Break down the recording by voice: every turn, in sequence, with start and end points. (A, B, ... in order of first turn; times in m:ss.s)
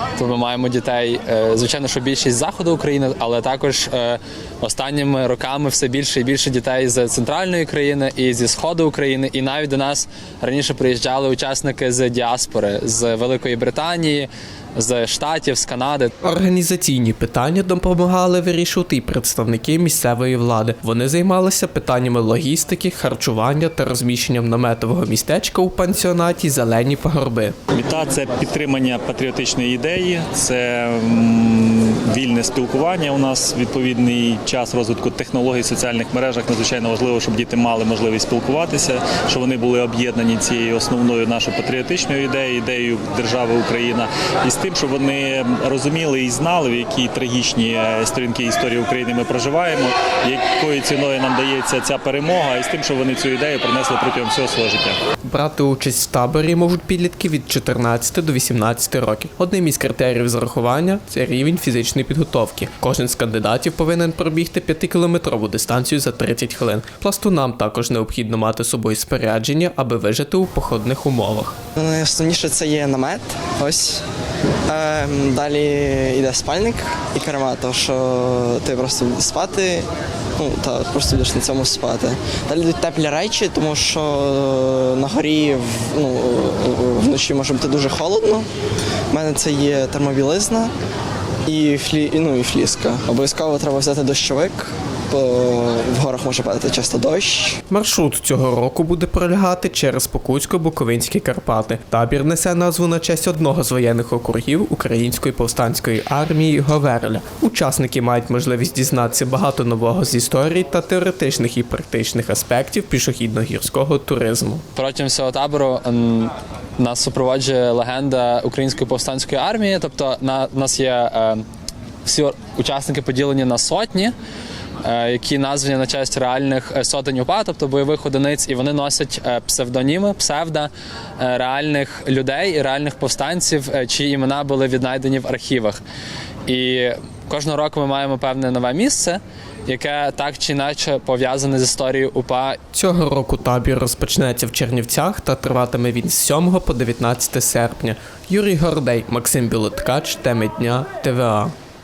0:00.2-0:16.1 A
0:16.2-0:27.6 B
0:27.7-0:55.0 C
0:55.3-1:11.6 B
1:12.6-1:14.0 D
1:14.8-1:19.8 D
1:20.5-1:27.0 D
1:27.9-1:28.4 D
1:29.2-1:30.6 D
1:35.2-1:36.0 D
1:37.7-1:54.6 B
1:54.8-2:01.4 A
2:02.0-2:04.1 A
2:04.8-2:15.8 A
2:16.5-2:22.6 A
2:22.7-2:31.5 B